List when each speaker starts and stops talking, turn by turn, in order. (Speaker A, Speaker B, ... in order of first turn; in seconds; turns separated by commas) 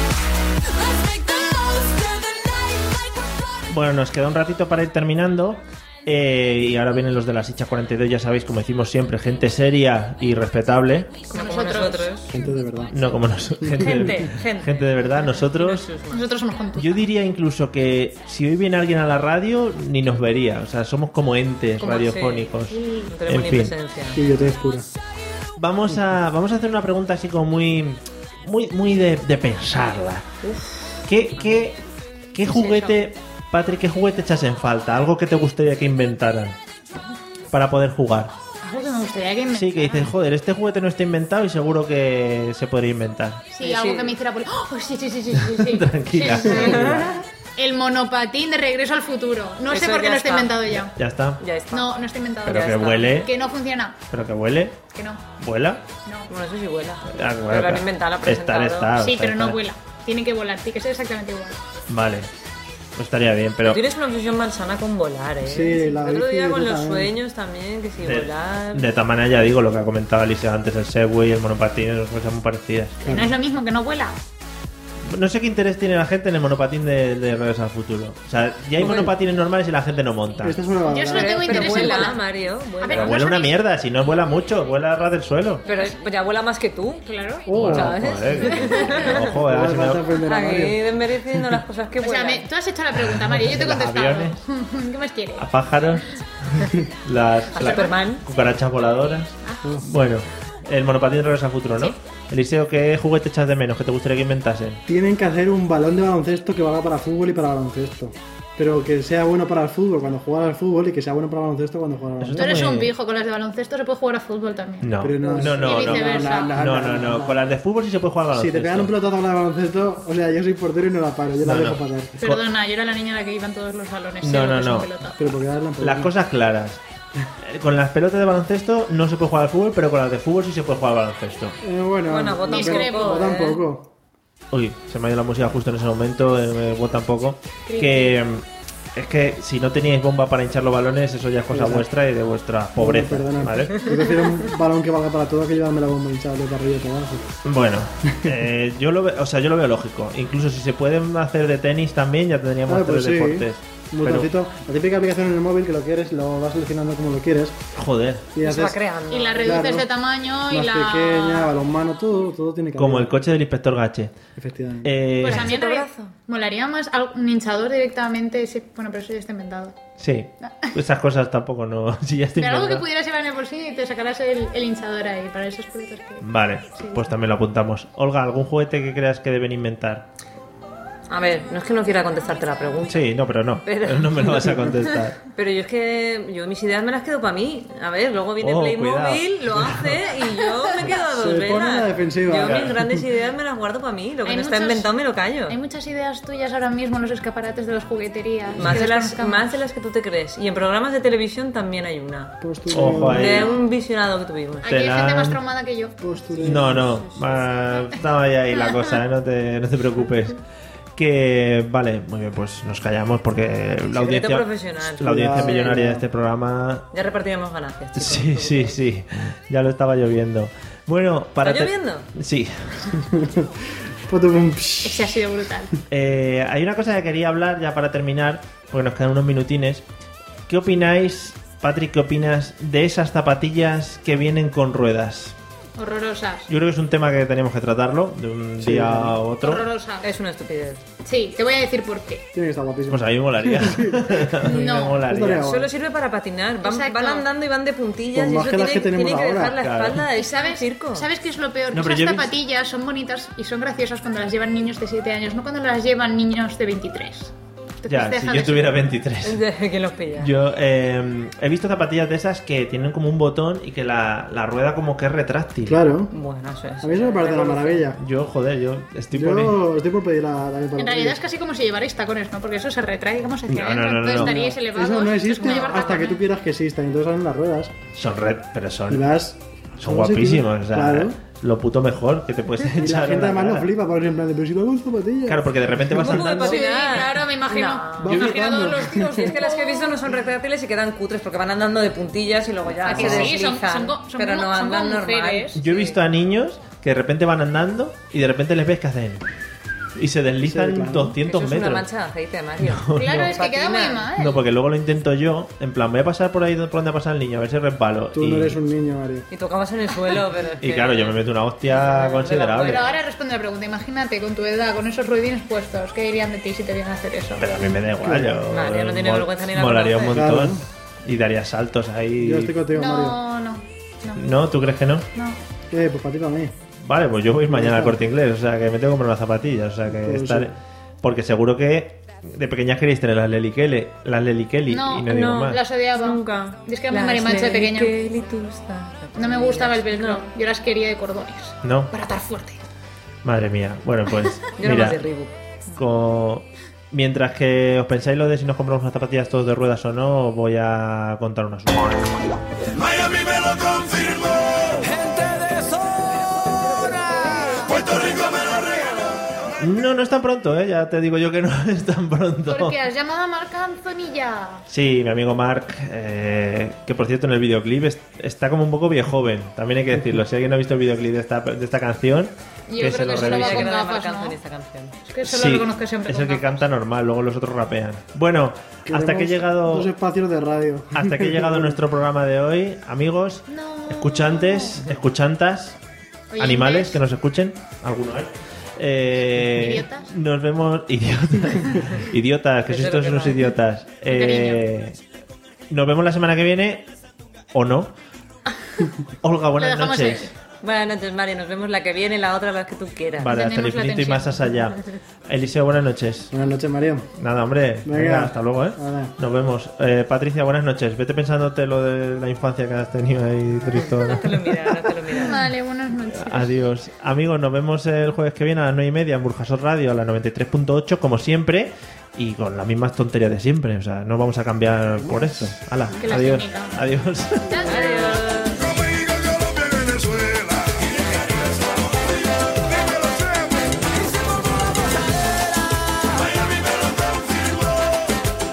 Speaker A: 3.7-11.2, Speaker B: 11.3-12.1, Speaker C: 11.3-12.3, Speaker D: 12.3-13.0, Speaker A: 12.4-15.9, Speaker D: 13.6-14.1, Speaker C: 13.8-16.2, Speaker B: 16.1-16.9, Speaker A: 16.8-23.7, Speaker C: 21.8-22.5, Speaker B: 22.7-23.1, Speaker C: 23.1-24.2, Speaker D: 24.1-24.9, Speaker A: 25.6-30.3, Speaker C: 30.4-31.8, Speaker A: 31.1-31.8, Speaker A: 32.3-36.6, Speaker B: 32.5-33.0, Speaker C: 32.5-32.9, Speaker A: 37.5-38.3, Speaker B: 38.6-40.1, Speaker A: 39.5-43.5, Speaker B: 43.5-50.9, Speaker C: 43.6-44.2, Speaker A: 45.4-47.1, Speaker C: 46.4-47.1, Speaker D: 46.6-47.0, Speaker C: 49.7-50.8, Speaker A: 50.9-51.4, Speaker C: 51.4-51.9, Speaker B: 51.7-54.0, Speaker A: 52.5-53.3, Speaker C: 52.5-53.3, Speaker A: 54.1-54.8, Speaker B: 54.9-55.2, Speaker A: 55.4-55.8, Speaker C: 56.3-59.0, Speaker A: 57.1-59.6, Speaker B: 59.0-61.6, Speaker A: 61.9-62.3, Speaker A: 63.0-63.8, Speaker C: 63.7-68.9, Speaker D: 65.4-67.2, Speaker A: 68.0-73.0, Speaker D: 73.0-73.3, Speaker B: 73.0-74.2, Speaker A: 75.1-80.6, Speaker C: 78.8-79.1, Speaker D: 80.4-81.8, Speaker B: 80.9-82.3, Speaker C: 81.1-83.2, Speaker B: 82.8-83.5, Speaker A: 82.9-85.6, Speaker C: 85.7-87.0, Speaker B: 85.7-86.0, Speaker B: 87.1-87.5, Speaker D: 87.5-88.2, Speaker A: 87.5-90.1, Speaker C: 87.6-89.3, Speaker B: 88.5-89.0, Speaker D: 89.2-90.8, Speaker C: 90.2-92.5, Speaker B: 92.0-95.5, Speaker A: 93.1-94.4, Speaker A: 95.4-104.8, Speaker C: 97.5-98.2, Speaker B: 97.5-98.0, Speaker D: 104.9-112.6, Speaker A: 112.2-112.9, Speaker B: 112.4-116.6, Speaker A: 114.8-118.9, Speaker D: 115.0-117.5, Speaker D: 118.3-122.1, Speaker A: 121.4-122.4, Speaker B: 122.2-125.2, Speaker A: 124.2-124.9, Speaker D: 125.2-126.1, Speaker A: 125.8-126.8, Speaker A: 127.4-131.6, Speaker D: 131.6-133.9, Speaker C: 132.1-133.6, Speaker B: 132.5-133.3, Speaker A: 134.5-143.9, Speaker B: 137.7-138.2, Speaker D: 141.5-141.9, Speaker D: 142.8-147.3, Speaker A: 147.4-154.3, Speaker D: 148.1-148.5, Speaker D: 152.7-157.6, Speaker A: 157.8-158.3, Speaker D: 158.3-158.8, Speaker C: 158.4-159.7, Speaker B: 159.1-161.5, Speaker D: 159.4-159.9, Speaker D: 160.5-163.2, Speaker A: 162.8-164.2, Speaker D: 164.4-165.0, Speaker A: 164.8-165.5, Speaker B: 165.2-169.8, Speaker C: 165.2-166.2, Speaker A: 170.0-172.9, Speaker B: 170.4-170.7, Speaker B: 172.4-177.1, Speaker A: 176.2-180.1, Speaker C: 181.1-183.0, Speaker A: 182.9-185.2, Speaker C: 183.7-195.6, Speaker A: 188.4-190.1, Speaker D: 191.1-193.0, Speaker A: 192.4-192.8, Speaker B: 194.2-194.9, Speaker B: 195.5-199.6, Speaker C: 198.6-204.7, Speaker D: 202.4-203.4, Speaker A: 202.7-203.5, Speaker B: 203.2-203.5, Speaker B: 204.6-206.0, Speaker A: 204.7-205.4, Speaker D: 206.0-207.0, Speaker C: 206.4-207.5, Speaker A: 206.4-210.4, Speaker A: 210.9-216.9, Speaker C: 213.9-215.8, Speaker D: 215.0-216.1, Speaker C: 216.9-218.8, Speaker A: 218.0-223.0, Speaker C: 221.4-222.1, Speaker D: 222.9-223.5, Speaker D: 224.1-225.2, Speaker B: 224.8-225.7, Speaker A: 225.9-229.8, Speaker A: 230.5-235.3, Speaker B: 235.8-236.5, Speaker A: 236.5-239.7, Speaker D: 238.6-239.2, Speaker B: 239.4-240.1, Speaker C: 240.0-240.8, Speaker B: 241.1-242.2, Speaker D: 242.3-245.7, Speaker A: 242.9-245.5, Speaker B: 244.4-245.0, Speaker C: 245.4-251.1, Speaker B: 246.6-247.2, Speaker D: 248.1-249.6, Speaker A: 249.6-250.0, Speaker B: 250.1-258.8, Speaker A: 251.7-252.3, Speaker A: 257.9-259.4, Speaker C: 259.2-260.3, Speaker A: 260.2-265.8, Speaker D: 265.6-266.1, Speaker C: 266.1-267.9, Speaker D: 266.8-268.0, Speaker A: 267.9-269.6, Speaker D: 269.1-271.2, Speaker B: 270.8-276.2, Speaker A: 273.5-274.3, Speaker D: 274.1-277.8, Speaker A: 277.9-279.1, Speaker D: 278.9-281.2, Speaker A: 279.8-283.7, Speaker D: 282.8-286.5, Speaker A: 285.3-286.6, Speaker C: 285.9-288.3, Speaker B: 286.4-290.0, Speaker D: 288.0-289.4, Speaker C: 289.2-296.0, Speaker B: 292.9-295.6, Speaker D: 292.9-293.3, Speaker A: 295.6-299.2, Speaker A: 299.9-301.9, Speaker D: 300.4-301.2, Speaker C: 301.2-304.2, Speaker A: 302.6-303.4, Speaker B: 302.9-304.4, Speaker A: 304.2-308.6, Speaker D: 308.1-309.3, Speaker C: 309.3-313.0, Speaker A: 310.6-312.8, Speaker B: 312.6-317.5, Speaker A: 317.4-322.5, Speaker D: 318.0-318.4, Speaker C: 318.5-320.3, Speaker D: 320.1-320.6, Speaker D: 322.2-323.2, Speaker B: 322.7-324.2, Speaker A: 324.2-325.1, Speaker B: 325.1-325.4, Speaker D: 325.7-326.5, Speaker A: 326.8-335.6, Speaker D: 327.5-328.0, Speaker D: 329.9-330.5, Speaker B: 334.7-337.9, Speaker C: 335.1-340.3, Speaker B: 339.2-342.6, Speaker A: 341.6-341.9, Speaker A: 343.2-345.0, Speaker C: 344.6-345.3, Speaker A: 345.8-352.2, Speaker E: 352.7-356.1, Speaker E: 356.7-359.2, Speaker B: 356.9-357.7, Speaker A: 359.6-362.8, Speaker B: 362.5-364.6, Speaker A: 364.7-373.7, Speaker B: 372.7-374.4, Speaker C: 373.1-375.0, Speaker B: 375.1-376.6, Speaker A: 375.3-379.9, Speaker D: 378.9-381.8, Speaker A: 380.9-385.8, Speaker B: 383.5-384.9, Speaker B: 386.3-387.0, Speaker A: 386.4-395.0, Speaker B: 389.5-390.1, Speaker C: 392.7-393.5, Speaker B: 394.1-394.7, Speaker A: 395.7-396.9, Speaker A: 397.5-397.9, Speaker A: 399.2-400.3, Speaker B: 399.6-400.3, Speaker C: 400.6-403.3, Speaker A: 403.2-406.3, Speaker B: 403.3-404.5, Speaker D: 406.3-407.1, Speaker A: 407.2-415.5, Speaker D: 407.9-409.1, Speaker C: 413.9-415.4, Speaker B: 415.3-416.7, Speaker A: 416.2-427.7, Speaker D: 425.0-425.6, Speaker B: 425.9-426.8, Speaker B: 427.4-428.2, Speaker C: 427.7-428.6, Speaker E: 428.4-434.2, Speaker E: 436.1-438.1